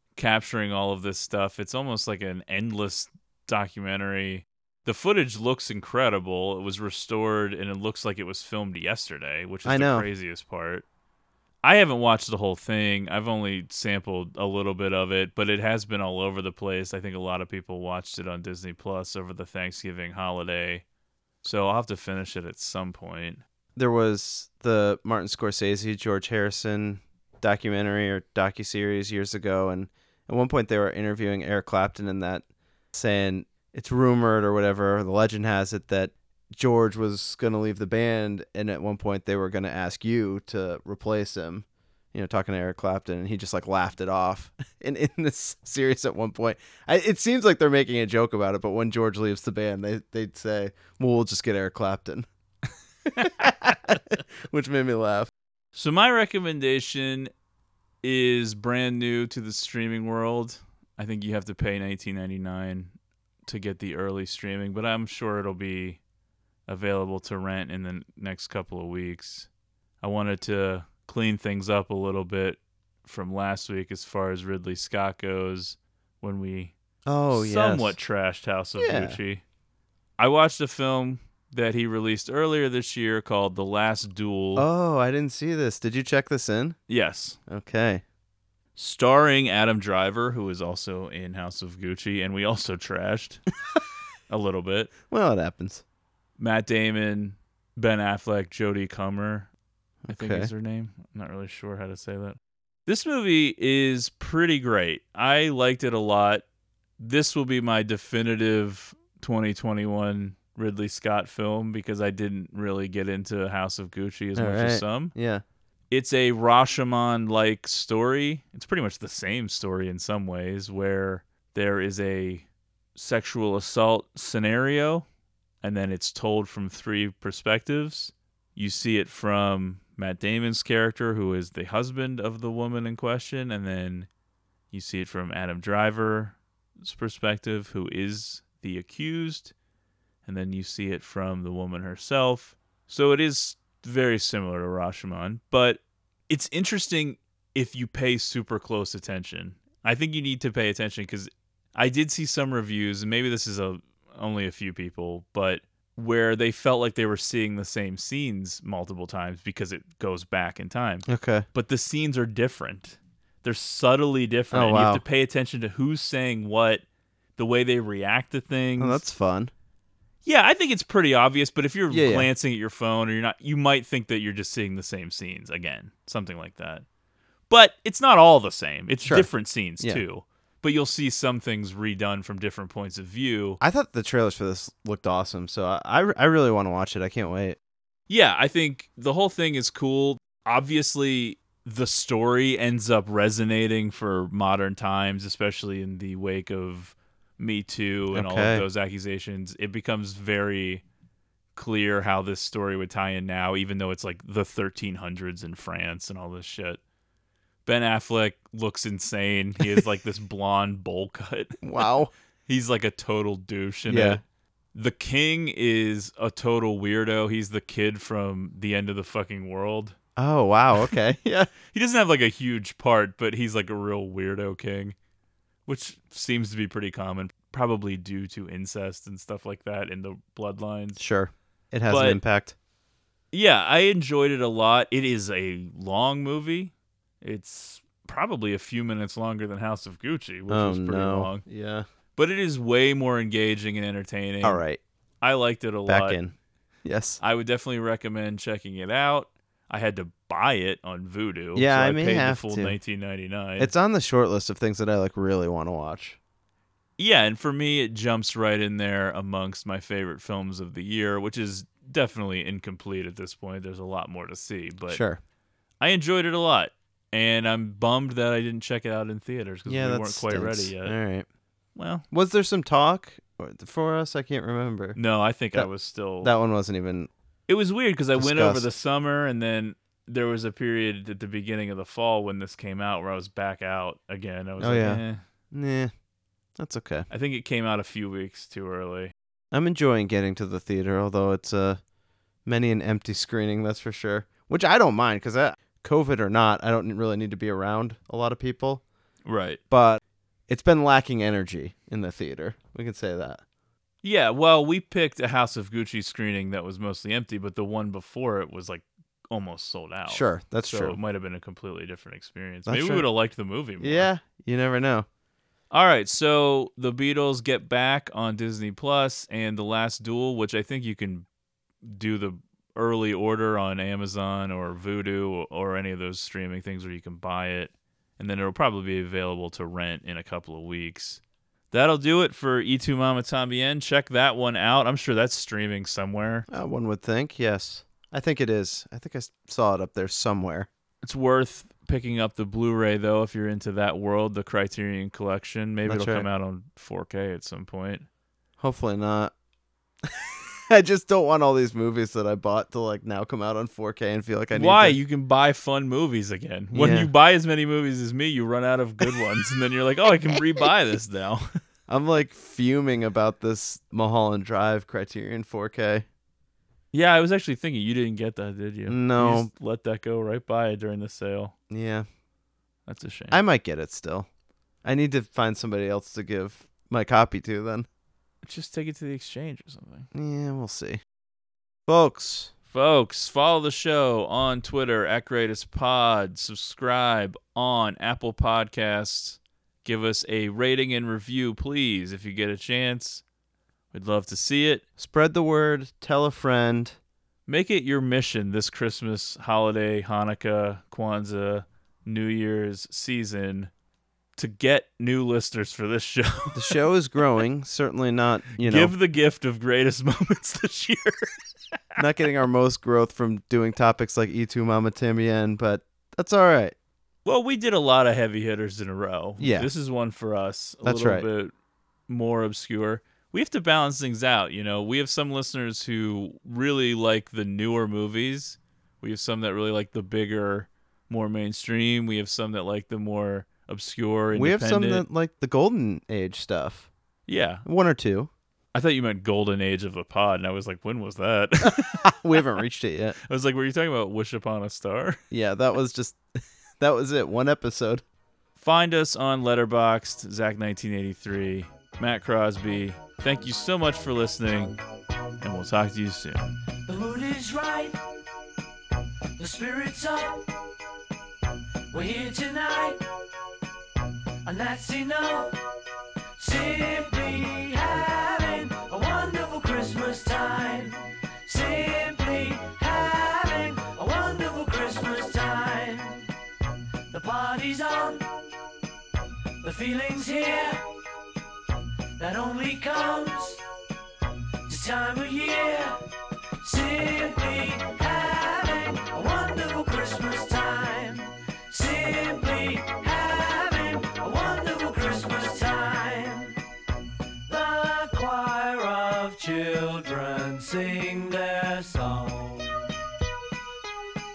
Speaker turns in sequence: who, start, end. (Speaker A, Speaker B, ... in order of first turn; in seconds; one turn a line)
Speaker A: 0.2-10.8
Speaker B: 9.7-10.1
Speaker A: 11.6-20.8
Speaker A: 21.4-23.4
Speaker B: 23.8-52.3
Speaker B: 53.2-55.3
Speaker A: 53.2-53.5
Speaker A: 55.8-57.3
Speaker A: 58.0-62.9
Speaker A: 63.5-66.0
Speaker A: 66.7-69.5
Speaker A: 70.0-76.7
Speaker B: 77.1-78.0
Speaker A: 77.3-79.4
Speaker B: 78.8-79.2
Speaker A: 80.2-84.7
Speaker B: 84.6-86.8
Speaker A: 86.9-87.4
Speaker B: 87.5-88.0
Speaker A: 88.8-93.4
Speaker A: 94.3-94.9
Speaker B: 95.1-95.8
Speaker A: 96.4-99.5
Speaker B: 100.0-100.5
Speaker A: 100.1-106.4
Speaker A: 107.0-115.1
Speaker B: 114.4-115.4
Speaker A: 115.9-125.1
Speaker A: 125.6-134.1
Speaker A: 134.7-139.5
Speaker A: 140.3-166.8
Speaker B: 161.1-161.5
Speaker B: 164.5-165.0
Speaker A: 167.4-169.0
Speaker B: 168.8-169.5
Speaker A: 170.2-176.8
Speaker B: 171.9-172.3
Speaker A: 177.5-183.6
Speaker B: 179.1-180.0
Speaker B: 183.6-187.6
Speaker A: 188.1-200.8
Speaker B: 198.1-198.7
Speaker A: 201.6-206.8
Speaker A: 207.7-211.6
Speaker B: 211.6-212.1
Speaker A: 212.5-214.2
Speaker B: 213.9-214.2
Speaker A: 214.7-220.0
Speaker B: 220.2-221.5
Speaker A: 221.7-224.9
Speaker A: 225.7-231.0
Speaker B: 231.0-232.6
Speaker A: 231.9-232.2
Speaker A: 233.3-241.4
Speaker B: 240.5-241.9
Speaker A: 242.2-244.6
Speaker B: 244.4-244.8
Speaker A: 245.2-246.2
Speaker B: 245.9-246.3
Speaker B: 246.8-247.2
Speaker A: 247.2-253.7
Speaker B: 251.6-252.8
Speaker B: 253.6-256.2
Speaker A: 257.0-265.0
Speaker B: 264.9-265.2
Speaker A: 265.8-271.0
Speaker B: 269.7-271.3
Speaker A: 271.8-272.1
Speaker B: 272.1-275.0
Speaker A: 275.0-276.3
Speaker B: 276.2-277.1
Speaker A: 277.5-285.2
Speaker B: 278.2-278.7
Speaker B: 284.6-285.9
Speaker B: 286.6-287.1
Speaker A: 287.1-289.1
Speaker B: 289.5-291.8
Speaker B: 292.4-298.8
Speaker A: 299.3-299.6
Speaker B: 299.7-303.4
Speaker A: 304.0-314.1
Speaker B: 310.1-311.0
Speaker B: 312.7-313.1
Speaker B: 313.8-315.1
Speaker A: 315.7-321.3
Speaker A: 321.8-331.2
Speaker A: 331.7-336.5
Speaker B: 336.5-340.7
Speaker A: 341.0-348.1
Speaker B: 345.9-346.3
Speaker B: 348.6-349.3
Speaker B: 350.1-355.0
Speaker A: 354.5-361.5
Speaker B: 356.7-357.1
Speaker B: 361.9-366.1
Speaker A: 366.9-371.5
Speaker B: 368.9-369.5
Speaker B: 371.7-372.1
Speaker A: 372.9-373.4
Speaker B: 373.3-374.3
Speaker B: 374.8-377.9
Speaker A: 378.4-380.1
Speaker B: 380.1-381.0
Speaker B: 381.9-382.5
Speaker A: 382.7-393.2
Speaker A: 393.9-394.8
Speaker B: 395.0-397.0
Speaker A: 397.5-403.7
Speaker A: 404.4-406.8
Speaker B: 406.6-408.9
Speaker A: 408.6-411.3
Speaker B: 412.0-416.8
Speaker A: 417.2-421.5
Speaker B: 419.4-419.7
Speaker B: 420.8-421.3
Speaker A: 422.1-435.1
Speaker B: 434.3-436.9
Speaker A: 437.3-437.6
Speaker B: 437.6-438.3
Speaker A: 438.7-442.4
Speaker B: 441.6-443.2
Speaker A: 443.3-445.2
Speaker B: 445.3-446.2
Speaker B: 446.8-448.0
Speaker A: 448.6-454.8
Speaker A: 455.4-456.5
Speaker C: 456.9-458.0
Speaker C: 459.4-460.4
Speaker C: 461.9-463.0
Speaker C: 464.4-465.6
Speaker C: 466.4-476.3
Speaker C: 477.1-478.3
Speaker C: 479.6-480.9
Speaker C: 482.2-483.6
Speaker C: 484.7-486.0
Speaker C: 486.6-496.6
Speaker C: 497.5-502.7